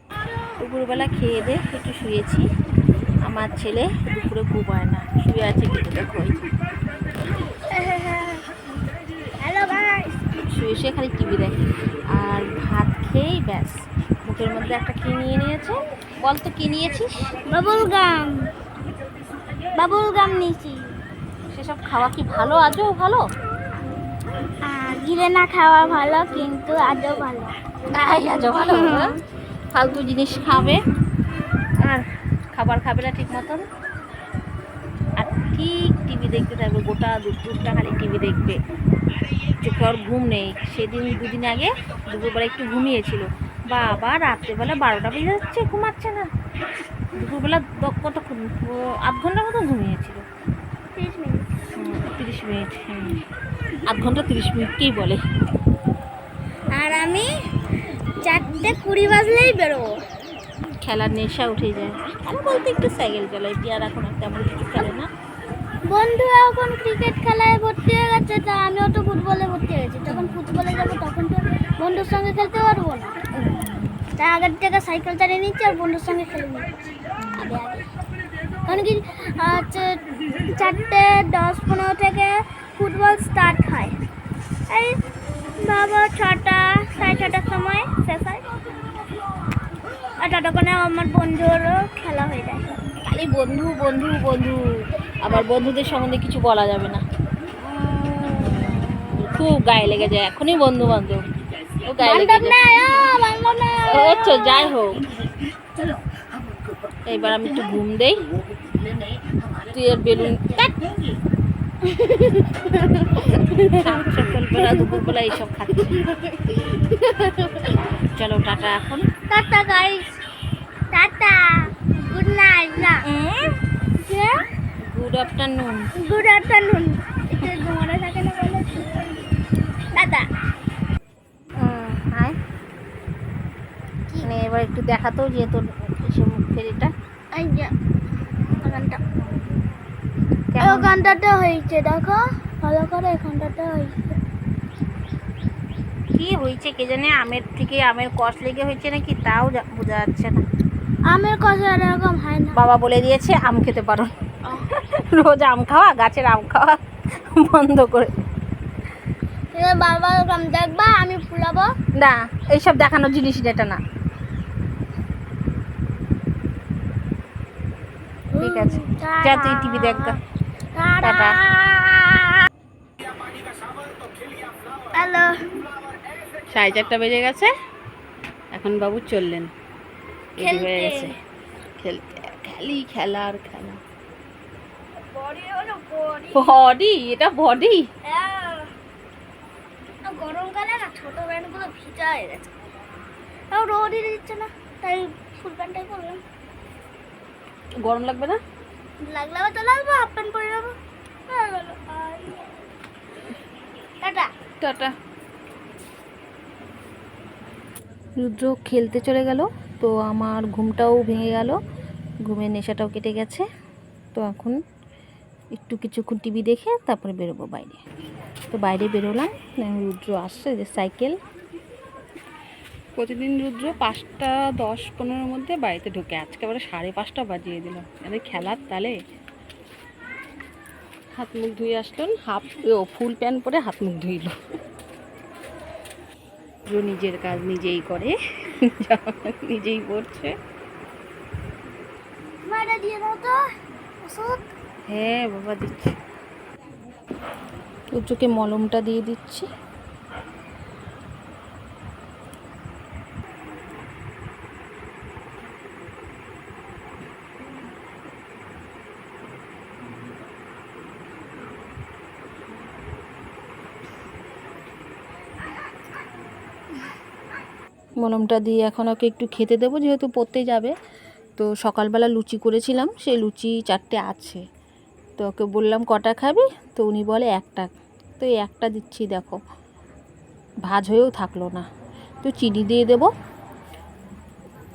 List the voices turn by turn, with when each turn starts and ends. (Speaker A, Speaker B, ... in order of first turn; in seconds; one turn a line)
Speaker A: 0.6-2.4
Speaker A: 3.2-6.4
Speaker B: 7.7-8.4
Speaker B: 9.4-10.2
Speaker A: 10.5-11.6
Speaker A: 12.1-17.3
Speaker B: 17.4-18.5
Speaker B: 19.7-20.9
Speaker A: 21.5-23.2
Speaker B: 24.6-27.5
Speaker A: 27.9-29.2
Speaker B: 28.4-29.2
Speaker A: 29.7-30.8
Speaker A: 31.8-33.6
Speaker A: 35.2-38.6
Speaker A: 39.6-46.3
Speaker A: 47.1-50.2
Speaker B: 50.9-51.5
Speaker A: 51.7-53.2
Speaker A: 53.9-55.2
Speaker B: 56.7-57.3
Speaker B: 58.2-59.9
Speaker A: 60.8-65.1
Speaker B: 65.8-73.2
Speaker A: 70.1-70.4
Speaker A: 73.4-74.1
Speaker B: 74.2-76.7
Speaker A: 77.2-77.5
Speaker B: 77.4-77.9
Speaker B: 78.7-83.9
Speaker B: 84.7-85.0
Speaker B: 85.6-88.5
Speaker B: 90.2-92.8
Speaker A: 93.0-94.6
Speaker A: 95.2-97.0
Speaker B: 97.7-99.2
Speaker A: 98.3-101.2
Speaker A: 101.8-102.6
Speaker B: 102.0-104.8
Speaker A: 103.8-105.0
Speaker A: 107.1-108.3
Speaker A: 109.6-110.7
Speaker B: 111.8-115.2
Speaker A: 113.7-116.0
Speaker B: 116.3-117.8
Speaker A: 117.9-119.0
Speaker B: 119.3-120.1
Speaker B: 120.9-123.0
Speaker A: 123.0-123.5
Speaker B: 124.0-124.4
Speaker A: 124.8-125.9
Speaker B: 126.0-129.3
Speaker B: 129.9-130.3
Speaker A: 131.6-132.4
Speaker A: 134.2-136.9
Speaker B: 137.3-137.7
Speaker B: 138.6-139.3
Speaker A: 140.5-141.2
Speaker B: 140.6-143.9
Speaker A: 146.1-150.4
Speaker B: 151.1-152.6
Speaker A: 152.5-158.2
Speaker B: 159.5-161.7
Speaker A: 162.0-163.8
Speaker B: 168.3-170.2
Speaker A: 168.4-170.2
Speaker B: 170.7-172.5
Speaker A: 171.0-171.4
Speaker B: 174.9-175.5
Speaker A: 176.5-177.5
Speaker A: 178.5-179.5
Speaker A: 180.4-181.1
Speaker B: 180.4-181.2
Speaker A: 181.7-183.8
Speaker B: 185.1-186.6
Speaker A: 186.3-187.8
Speaker B: 188.0-188.7
Speaker B: 190.0-192.5
Speaker B: 193.5-196.2
Speaker A: 197.8-198.4
Speaker B: 199.0-200.7
Speaker B: 201.3-202.5
Speaker B: 204.0-204.3
Speaker A: 204.6-204.9
Speaker A: 208.2-211.6
Speaker A: 212.2-213.4
Speaker A: 214.1-214.6
Speaker A: 215.5-217.8
Speaker A: 218.5-221.2
Speaker A: 223.0-229.0
Speaker A: 231.1-234.3
Speaker A: 236.7-240.3
Speaker B: 242.4-243.4
Speaker B: 244.0-244.4
Speaker A: 244.9-245.9
Speaker A: 247.9-249.5
Speaker A: 268.0-270.7
Speaker A: 271.4-274.4
Speaker A: 275.2-279.4
Speaker A: 280.7-281.6
Speaker A: 282.2-283.1